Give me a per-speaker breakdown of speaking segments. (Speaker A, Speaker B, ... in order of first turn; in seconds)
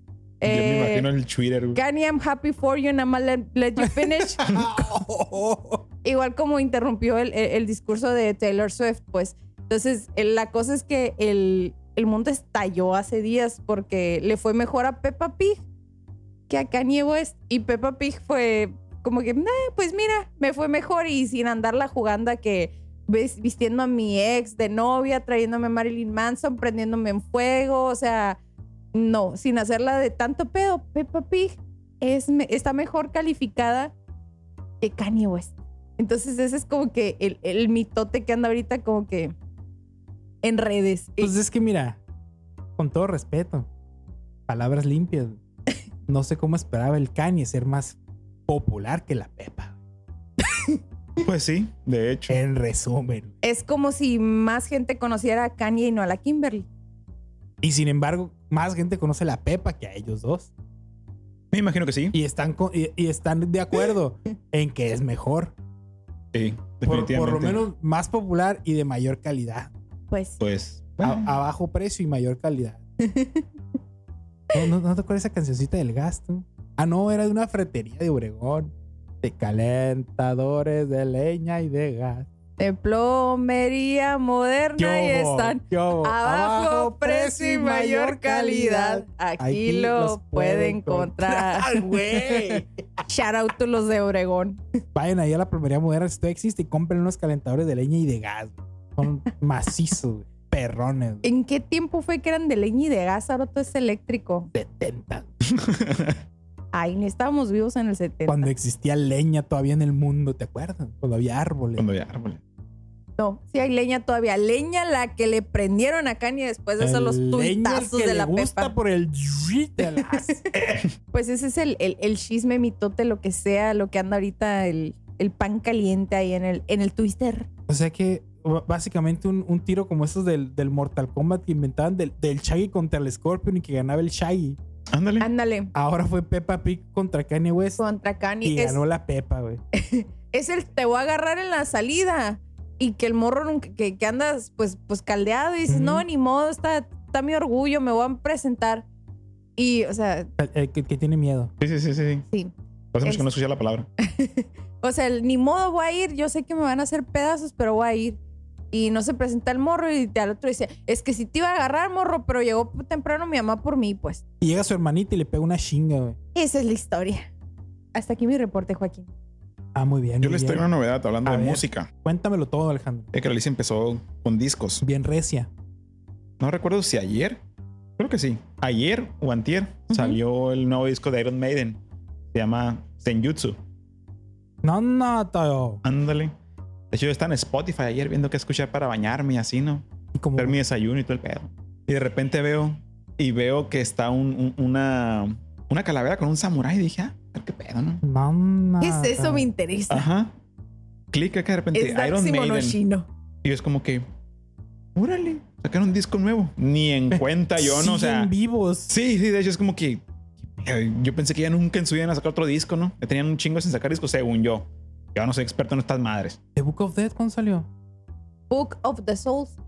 Speaker A: 0.4-1.1, 1.7-4.5, 6.0-15.6, 16.5-28.4, 28.9-33.9, 34.8-39.3, 40.4-41.3, 50.4-50.8, 53.4-56.7, 70.1-70.4, 73.0-73.5, 82.6-94.6, 101.2-104.5, 106.7-108.5, 113.2-118.7, 119.9-120.4, 121.1-127.5, 135.2-135.7, 137.8-138.8, 139.7-148.8, 149.6-150.3, 154.0-158.2, 158.7-164.2, 166.3-167.3, 167.9-169.1, 198.8-200.1, 201.7-203.1, 218.5-219.6
Speaker B: 0.4-1.8, 4.4-4.7, 51.2-52.4, 61.5-62.1, 66.3-67.6, 70.4-71.3, 105.5-106.2, 111.8-112.4, 134.9-135.3, 151.6-152.3, 152.9-153.9, 170.2-171.9, 173.1-174.8, 176.4-177.4, 178.0-181.8, 182.3-183.6, 185.8-186.3, 186.9-189.8, 190.4-198.0, 199.9-200.3, 201.1-202.8, 203.4-204.1, 204.9-208.3, 208.9-210.0, 210.6-216.4
Speaker C: 3.8-5.8, 41.2-42.0, 42.8-43.7, 44.5-45.4, 46.1-48.0, 48.5-49.8, 52.3-53.3, 57.6-60.5, 62.1-65.5, 66.8-69.7, 71.0-72.8, 74.5-82.3, 84.8-93.0, 94.9-101.2, 104.5-105.3, 108.3-111.8, 116.8-120.8, 127.7-134.6, 135.7-137.8, 138.4-139.6, 145.7-146.0, 150.4-151.5, 164.4-166.2, 169.7-170.6, 171.2-173.1, 174.8-175.5, 184.6-185.8, 190.1-190.6, 198.0-199.5, 207.1-208.9, 216.5-217.7